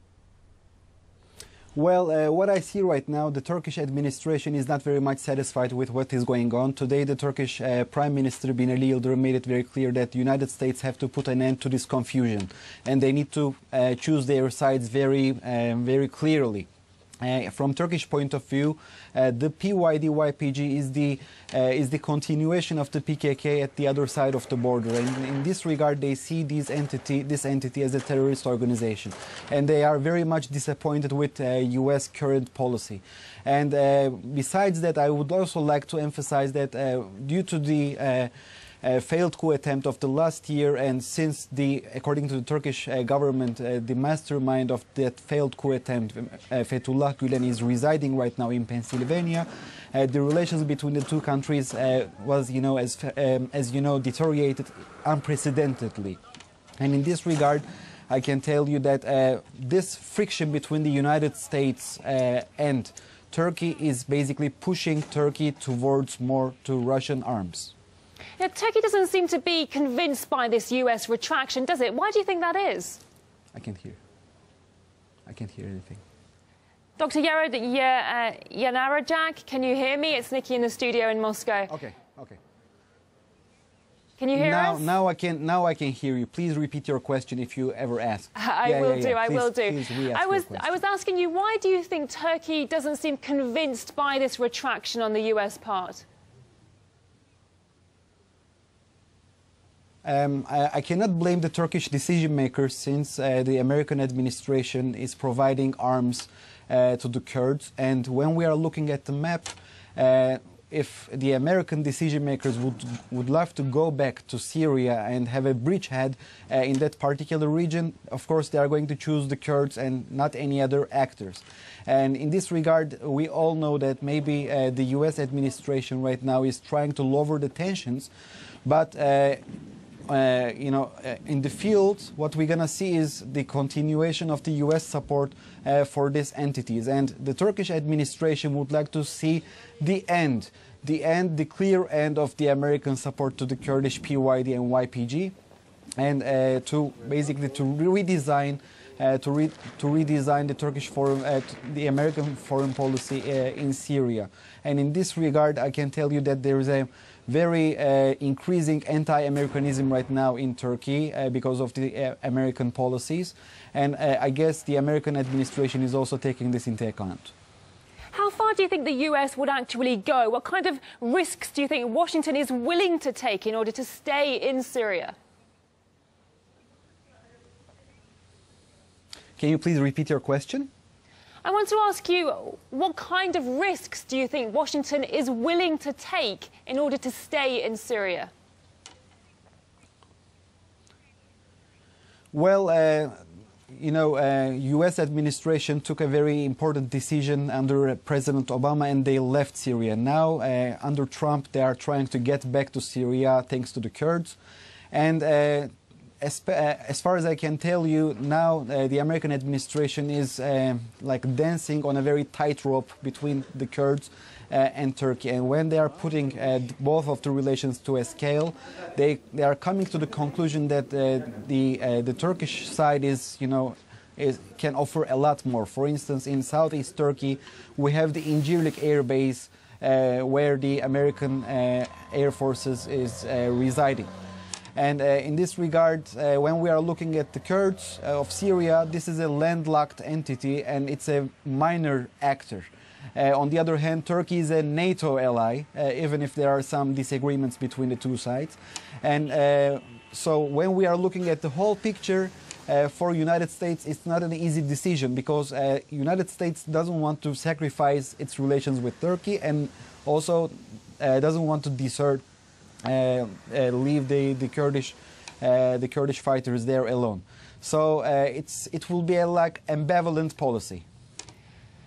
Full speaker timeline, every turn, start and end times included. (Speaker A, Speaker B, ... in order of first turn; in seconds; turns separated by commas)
Speaker A: 1.7-16.7, Speaker A: 17.2-38.3, Speaker A: 38.8-56.2, Speaker A: 56.8-67.7, Speaker B: 68.4-73.0, Speaker A: 73.5-74.0, Speaker A: 75.2-76.0, Speaker B: 77.0-81.7, Speaker A: 81.7-82.4, Speaker B: 84.2-84.9, Speaker A: 84.3-90.7, Speaker B: 88.3-96.0, Speaker A: 100.0-128.1, Speaker A: 128.7-129.4, Speaker A: 130.1-145.3, Speaker A: 146.0-167.3, Speaker B: 168.1-175.2, Speaker A: 179.4-180.7, Speaker B: 181.4-188.3, Speaker A: 192.3-193.2, Speaker A: 193.7-204.4, Speaker A: 204.9-205.7, Speaker A: 206.2-234.1, Speaker A: 234.8-262.2, Speaker A: 262.8-270.8